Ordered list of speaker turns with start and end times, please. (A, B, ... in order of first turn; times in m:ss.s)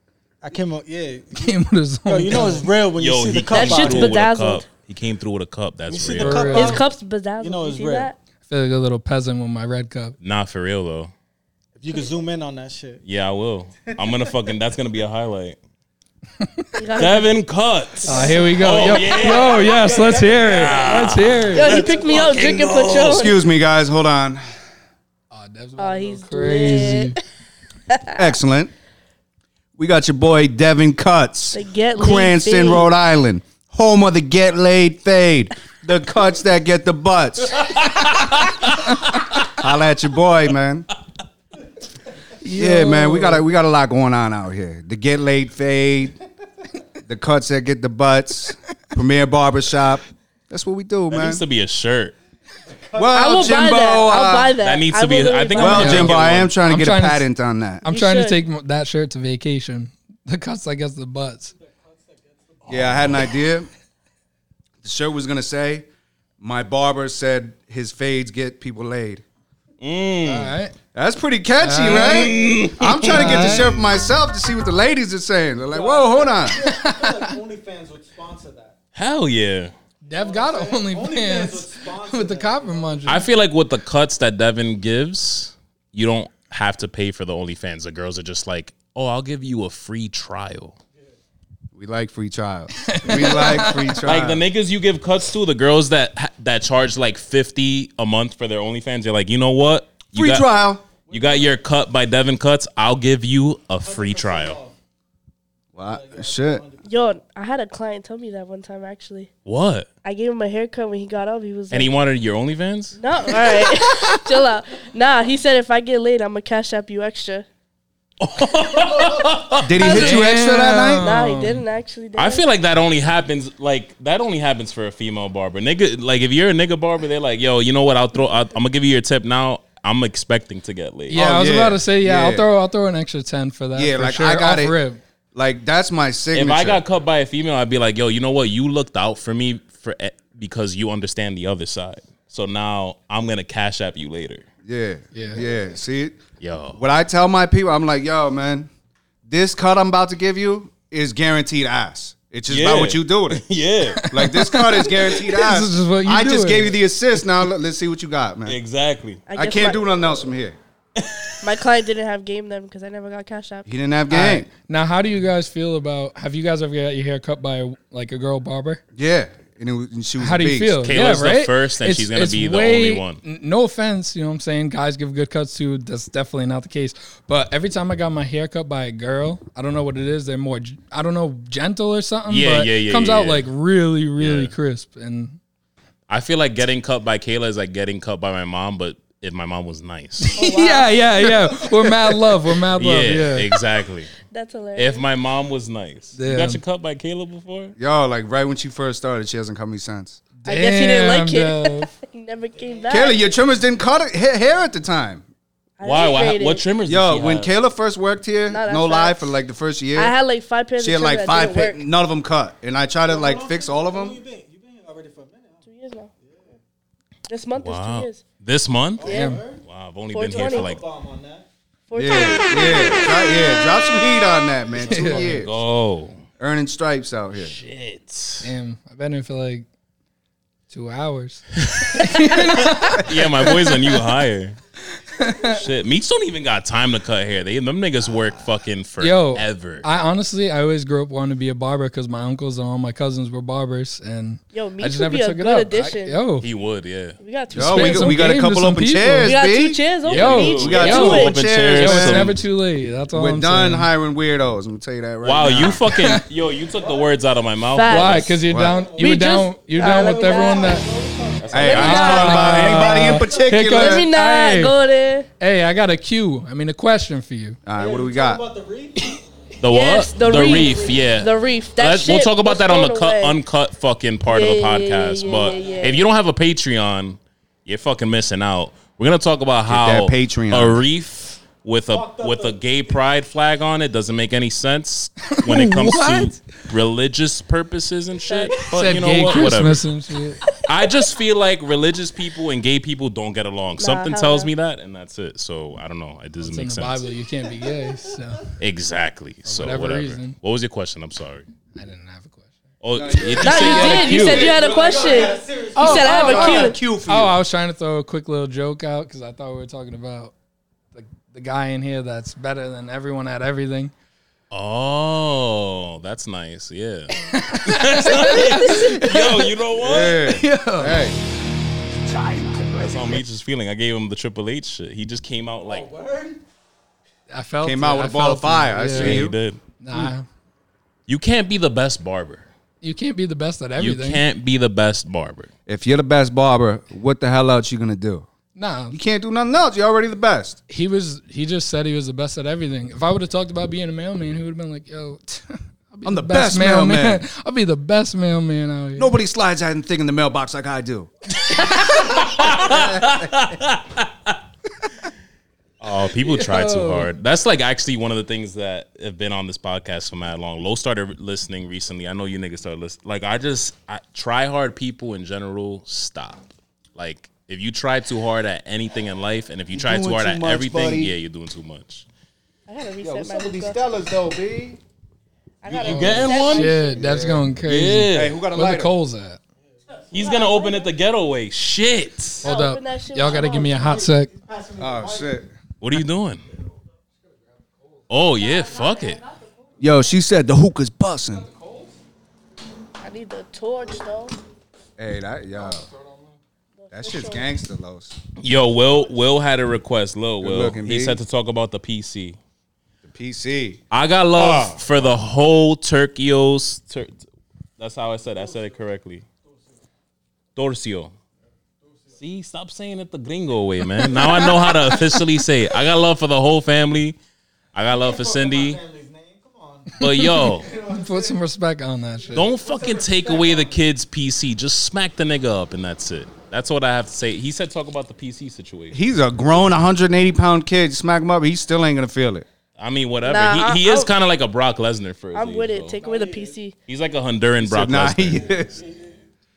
0:00.4-0:01.5 A
0:01.3-0:02.7 B
0:02.0-0:04.2 A
0:03.0-0:06.8 C
0:03.4-0:04.7 D
0:05.9-0:06.8 A
0:06.1-0:06.8 B
0:06.5-0:08.2 D
0:07.4-0:08.1 A
0:08.4-0:10.2 B
0:10.2-0:11.1 C
0:11.8-0:13.0 A
0:13.0-0:15.6 C
0:16.4-0:16.8 B
0:16.8-0:17.4 D
0:16.9-0:19.7 C
0:18.0-0:21.8 B
0:18.1-0:18.4 D
0:18.3-0:22.9 A
0:20.4-0:23.4 C
0:20.8-0:23.4 D
0:23.0-0:24.4 E
0:25.3-0:27.2 B
0:25.8-0:27.2 D
0:27.9-0:28.2 D
0:28.1-0:28.7 E
0:29.8-0:37.8 E
0:31.5-0:32.9 D
0:37.6-0:39.4 C
0:39.5-0:40.9 E
0:42.4-0:43.4 B
0:42.5-0:46.2 E
0:47.1-0:51.4 E
0:51.1-0:52.1 C
0:52.6-0:54.0 A
0:52.9-0:54.6 E
0:53.1-0:56.1 D
0:54.6-0:56.5 C
0:55.6-0:57.8 E
0:55.6-0:57.2 B
0:57.8-1:01.5 B
0:57.9-0:58.4 D
1:01.5-1:03.2 A
1:02.6-1:03.3 C
1:02.7-1:03.7 E
1:04.8-1:05.9 E
1:06.4-1:09.2 E
1:09.8-1:10.6 C
1:10.2-1:10.7 B
1:10.9-1:16.6 E
1:11.6-1:12.4 B
1:11.8-1:13.8 C
1:13.1-1:13.7 B
1:15.7-1:18.7 A
1:16.7-1:17.3 B
1:18.9-1:19.7 C
1:20.0-1:23.1 A
1:20.0-1:23.3 B
1:23.0-1:30.8 C
1:31.7-1:34.4 E
1:32.7-1:34.0 B
1:34.0-1:40.5 C
1:40.1-1:40.8 E
1:41.1-1:41.6 A
1:41.1-1:44.6 C
1:43.8-1:44.8 A
1:45.7-1:46.6 E
1:45.8-1:46.9 A
1:46.8-1:49.3 D
1:49.4-1:49.9 C
1:50.0-1:51.9 D
1:51.7-1:53.7 C
1:53.0-1:57.4 D
1:58.2-2:00.2 C
1:59.6-2:01.0 E
1:59.8-2:01.6 B
2:01.0-2:02.4 D
2:02.2-2:11.2 C
2:11.1-2:15.0 B
2:11.1-2:12.5 E
2:13.7-2:14.8 E
2:15.3-2:16.8 E
2:16.3-2:24.4 C
2:24.6-2:26.2 E
2:25.1-2:25.4 B
2:26.4-2:26.8 C
2:26.7-2:28.7 E
2:29.3-2:33.4 E
2:32.5-2:34.0 C
2:34.0-2:36.7 B
2:34.1-2:38.6 E
2:38.4-2:39.2 C
2:39.3-2:39.9 D
2:39.3-2:40.6 E
2:41.0-2:41.3 C
2:41.4-2:43.7 D
2:43.6-2:44.5 E
2:44.1-2:48.8 B
2:49.0-2:50.8 E
2:50.2-3:05.4 B
2:50.8-2:53.2 C
3:02.3-3:03.5 C
3:04.2-3:04.5 C
3:06.1-3:10.4 C
3:10.3-3:13.6 B
3:10.3-3:11.0 D
3:11.2-3:12.1 E
3:12.8-3:14.1 C
3:14.3-3:15.0 D
3:14.7-3:17.7 C
3:16.2-3:16.6 B
3:17.8-3:20.2 E
3:20.4-3:21.9 B
3:20.5-3:23.2 D
3:22.5-3:23.3 A
3:22.9-3:25.2 E
3:25.8-3:26.6 D
3:25.8-3:27.5 C
3:26.9-3:30.1 E
3:28.5-3:29.4 D
3:29.9-3:31.8 D
3:30.8-3:34.2 E
3:33.1-3:35.7 A
3:35.6-3:36.1 D
3:36.2-3:36.6 A
3:37.3-3:38.2 D
3:37.6-3:39.1 C
3:39.0-3:39.6 A
3:39.0-3:39.4 D
3:39.1-3:39.4 B
3:39.6-3:40.8 C
3:40.1-3:40.7 D
3:40.3-3:41.5 A
3:41.9-3:43.1 D
3:41.9-3:45.5 E
3:44.7-3:46.2 C
3:44.9-3:45.4 B
3:46.4-3:47.5 E
3:47.4-3:48.5 C
3:48.4-3:49.6 B
3:50.7-3:54.0 B
3:51.6-3:54.6 C
3:55.1-3:55.6 B
3:55.5-3:59.9 C
3:59.0-4:06.5 B
4:04.5-4:06.2 D
4:06.4-4:07.2 C
4:07.2-4:08.2 D
4:07.5-4:09.3 B
4:07.5-4:09.8 E
4:09.2-4:11.4 D
4:10.0-4:12.4 C
4:10.1-4:13.9 B
4:10.4-4:12.3 E
4:13.1-4:15.8 E
4:15.2-4:18.4 C
4:15.8-4:16.2 B
4:16.8-4:17.1 A
4:17.7-4:18.3 D
4:17.9-4:20.8 B
4:18.5-4:18.8 E
4:18.5-4:23.7 A
4:19.0-4:20.8 D
4:21.4-4:22.8 C
4:21.5-4:24.1 E
4:21.6-4:22.6 D
4:21.7-4:24.8 B
4:23.7-4:25.3 D
4:25.4-4:27.6 B
4:27.6-4:28.4 E
4:27.7-4:29.1 A
4:29.6-4:49.9 C
4:29.6-4:33.4 D
4:30.4-4:31.0 A
4:34.3-4:36.0 D
4:35.2-4:36.0 A
4:39.7-4:40.8 E
4:41.9-4:43.0 A
4:45.3-4:46.4 B
4:48.3-4:48.5 D
4:48.6-4:50.5 B
4:50.6-4:57.0 C
4:53.8-4:54.5 D
4:56.4-4:58.5 B
4:58.6-5:01.5 C
4:59.4-5:00.4 B
5:01.7-5:02.5 B
5:02.8-5:04.5 C
5:02.9-5:07.4 E
5:03.4-5:06.8 D
5:03.8-5:06.7 A
5:05.8-5:10.3 B
5:10.9-5:13.9 B
5:14.5-5:20.2 C
5:17.2-5:19.4 B
5:19.8-5:21.2 E
5:20.3-5:21.1 B
5:22.1-5:23.2 B
5:22.7-5:25.9 C
5:25.6-5:26.4 A
5:27.3-5:29.3 B
5:27.6-5:29.4 E
5:28.9-5:29.6 C
5:29.8-5:30.3 B
5:31.1-5:32.5 C
5:32.8-5:34.2 B
5:33.8-5:35.5 C
5:35.7-5:38.3 E
5:38.5-5:39.0 B
5:38.9-5:40.6 E
5:40.7-5:49.1 B
5:46.0-5:47.2 E
5:49.0-5:51.1 E
5:51.5-5:54.4 C
5:52.5-5:53.3 E
5:55.8-6:12.0 C
5:56.2-5:57.1 B
6:09.7-6:11.2 E
6:12.7-6:13.8 D
6:13.0-6:14.8 E
6:15.6-6:17.1 D
6:15.7-6:16.4 E
6:15.8-6:16.8 C
6:15.8-6:19.4 B
6:16.9-6:17.5 E
6:17.6-6:18.3 C
6:18.1-6:18.9 E
6:19.6-6:20.0 A
6:20.1-6:20.9 D
6:20.1-6:22.4 C
6:22.4-6:24.3 B
6:22.4-6:24.0 D
6:23.3-6:25.4 A
6:24.8-6:25.5 E
6:25.8-6:26.4 C
6:28.1-6:29.2 C
6:28.9-6:29.2 D
6:29.8-6:31.5 E
6:31.5-6:31.9 B
6:33.0-6:34.4 D
6:35.0-6:35.9 E
6:35.6-6:36.4 B
6:36.8-6:37.5 D
6:36.9-6:38.2 E
6:38.4-6:42.4 C
6:40.4-6:41.2 E
6:43.0-6:43.8 E
6:43.9-6:47.3 C
6:44.4-6:45.1 E
6:47.8-6:49.2 C
6:48.2-6:48.8 A
6:49.4-6:49.8 A
6:50.6-6:51.1 C
6:51.8-6:52.2 A
6:52.2-6:57.2 C
6:54.0-6:55.3 B
6:57.7-6:58.8 C
6:57.9-7:01.4 A
7:00.0-7:00.7 C
7:00.0-7:02.5 B
7:02.2-7:03.8 A
7:02.3-7:09.0 C
7:08.9-7:12.4 E
7:12.8-7:16.0 C
7:13.2-7:14.1 D
7:15.3-7:16.7 D
7:16.0-7:16.6 A
7:16.9-7:18.5 C
7:17.6-7:18.8 E
7:18.3-7:19.2 A